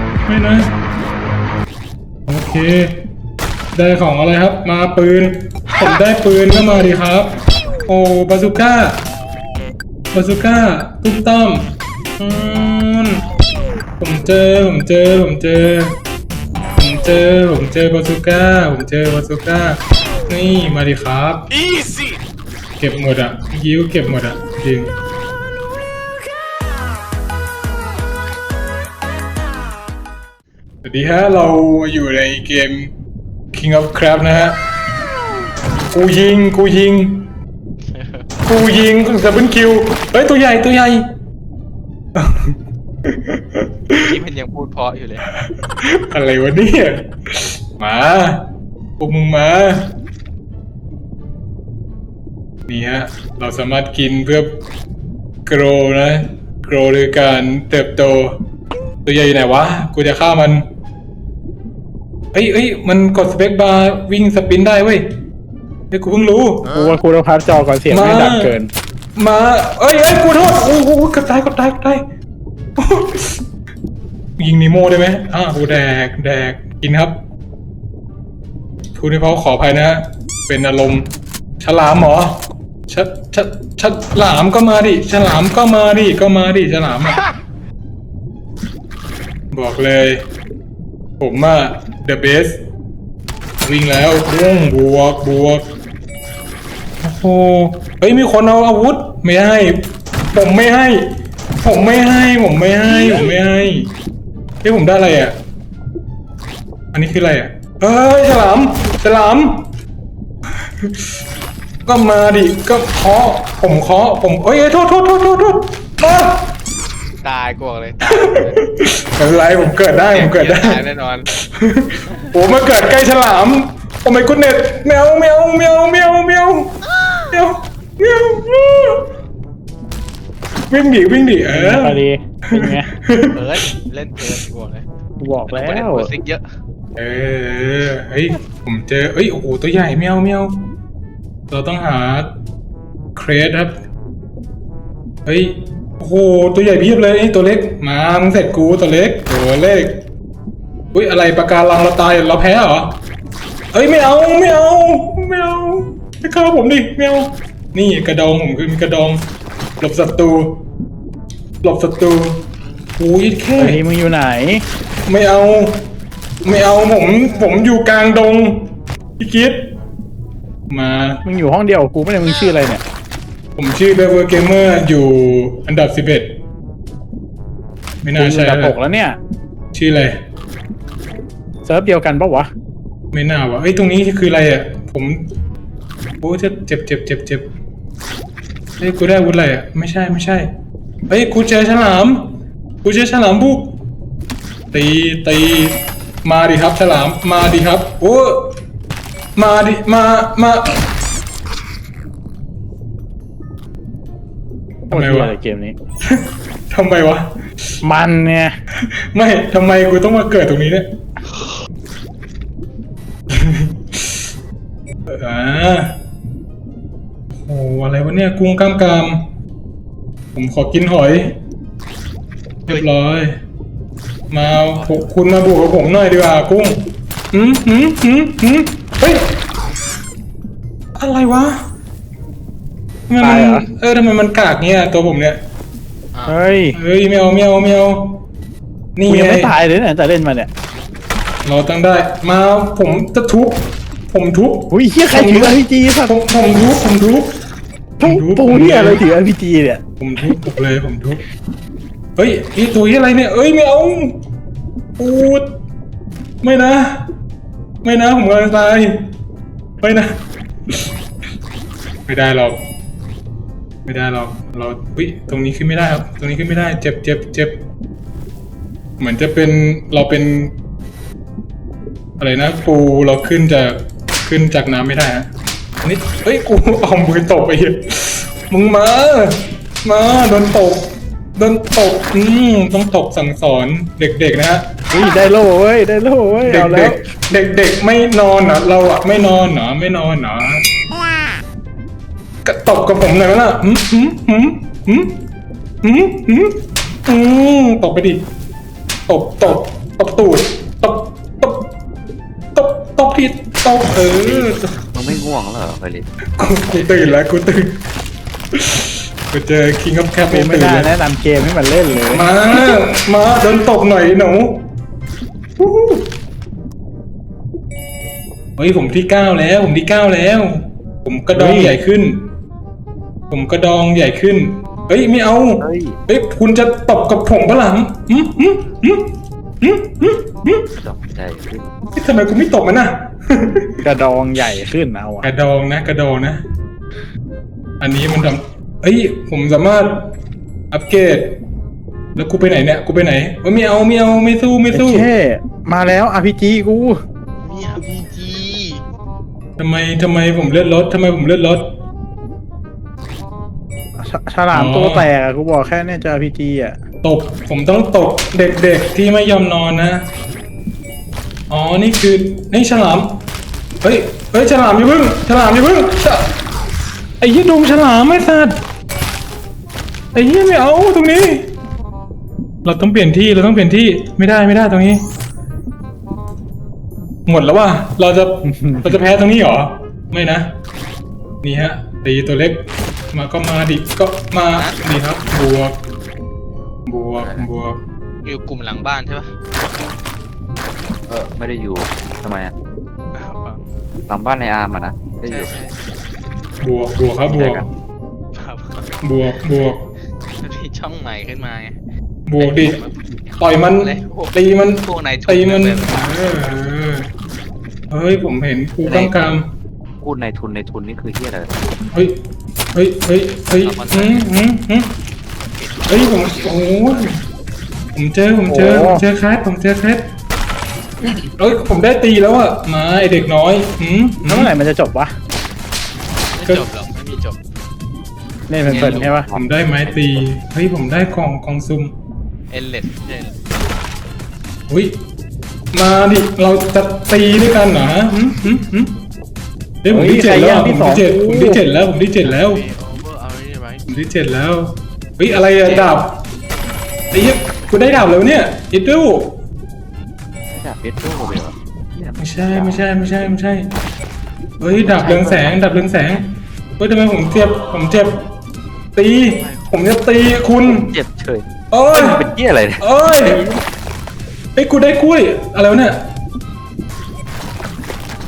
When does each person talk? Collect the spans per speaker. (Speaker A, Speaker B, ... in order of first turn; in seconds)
Speaker A: 0.3-0.7, 2.3-3.0, 3.7-9.0, 10.1-13.2, 14.0-16.0, 16.8-21.5, 22.8-24.9, 30.8-32.9, 33.5-34.6, 35.9-37.3, 38.5-41.1, 42.1-44.0, 45.4-50.0, 52.7-54.5, 55.5-58.4, 59.0-60.7, 62.3-65.1, 65.9-66.7, 67.9-68.6, 69.2-72.0, 72.8-73.4, 74.4-77.2, 78.9-81.1, 81.6-87.2, 89.5-90.2, 91.2-92.6, 93.6-95.6, 97.0-101.1, 101.6-103.9, 104.6-105.3, 106.9-109.7, 110.8-111.1, 111.8-116.5, 118.1-120.8, 121.5-126.8, 127.3-129.1, 130.7-133.4, 137.0-140.7, 141.5-142.3, 143.1-143.8, 145.2-150.0, 150.9-153.0, 153.7-159.2, 159.8-160.6, 161.6-162.4, 163.0-163.8, 165.1-165.9, 166.4-169.7, 170.7-171.2, 173.6-176.4, 178.0-178.8, 179.7-180.2, 183.1-185.2, 186.2-187.5, 188.8-190.5, 191.1-193.8, 194.7-198.6, 199.3-200.8, 204.9-205.3, 206.1-207.3, 209.1-210.9, 213.3-214.2, 215.1-216.0, 217.3-219.3, 220.3-221.3, 222.7-223.4, 224.3-229.3, 230.9-231.6, 233.1-235.4, 236.7-238.2, 238.9-239.5, 241.4-247.3, 248.0-249.0, 250.0-251.2, 252.2-254.2, 255.0-255.6, 256.4-257.1, 257.8-259.1, 259.8-260.9, 262.1-262.6, 263.9-267.6, 269.0-270.5, 272.2-275.3, 275.8-284.6, 286.4-290.6, 292.4-295.2, 295.8-298.2, 299.1-301.7, 302.5-304.8, 306.4-307.8, 308.5-310.9, 312.1-314.7, 315.6-316.1, 318.6-322.3, 323.3-330.7, 331.9-333.7, 335.2-336.4, 337.8-340.1, 340.7-341.4, 342.1-345.1, 349.6-351.8, 354.5-355.1, 357.0-360.1, 361.5-363.2, 363.8-366.3, 367.2-368.6, 370.1-371.5, 372.6-375.0, 377.2-380.5, 381.4-385.8, 386.9-387.8, 396.6-397.6, 399.0-399.9, 402.3-402.8, 403.4-407.1, 407.9-409.5, 411.9-412.2, 412.7-414.9, 415.9-417.2, 417.9-420.1, 421.4-424.5, 428.8-431.9, 434.7-435.0, 435.7-438.9, 439.8-442.6, 443.9-446.2, 447.1-449.4, 452.2-453.7, 454.6-458.2, 458.9-460.9, 461.7-462.3, 462.8-463.4, 464.6-466.0
Speaker B: 37.9-38.3, 44.0-45.3, 117.2-118.6, 119.5-121.3, 133.3-134.8, 135.5-136.4, 224.6-225.1, 347.4-348.8, 384.5-384.8, 388.2-389.3, 393.1-393.6, 395.2-395.8, 398.3-398.9, 400.4-401.8, 402.4-403.2, 403.8-406.2, 413.8-414.2, 415.5-417.1, 426.3-427.4, 428.7-429.1, 432.5-433.3, 442.2-443.9, 445.6-445.9, 459.3-459.7
Speaker C: 66.7-68.7, 131.5-132.9, 135.2-136.1, 163.6-164.6, 171.2-172.8, 178.2-179.2, 181.6-182.5, 204.9-205.8, 207.8-208.5, 233.2-233.6, 236.3-236.8, 239.1-240.5, 244.7-246.2, 248.0-249.8, 284.9-287.0, 310.3-312.3, 321.3-321.8, 333.8-335.3, 344.7-347.0, 354.0-356.7, 378.4-379.0, 418.5-419.0, 424.3-425.1, 428.5-429.3, 439.9-441.6, 463.2-463.5
Speaker D: 304.1-306.1, 325.6-326.0, 330.8-331.7, 387.2-387.5, 391.1-392.5, 394.1-395.5, 397.2-397.7, 408.8-409.2, 410.0-411.6, 413.6-414.2, 429.1-429.5, 450.5-453.0, 454.7-455.6, 460.6-463.4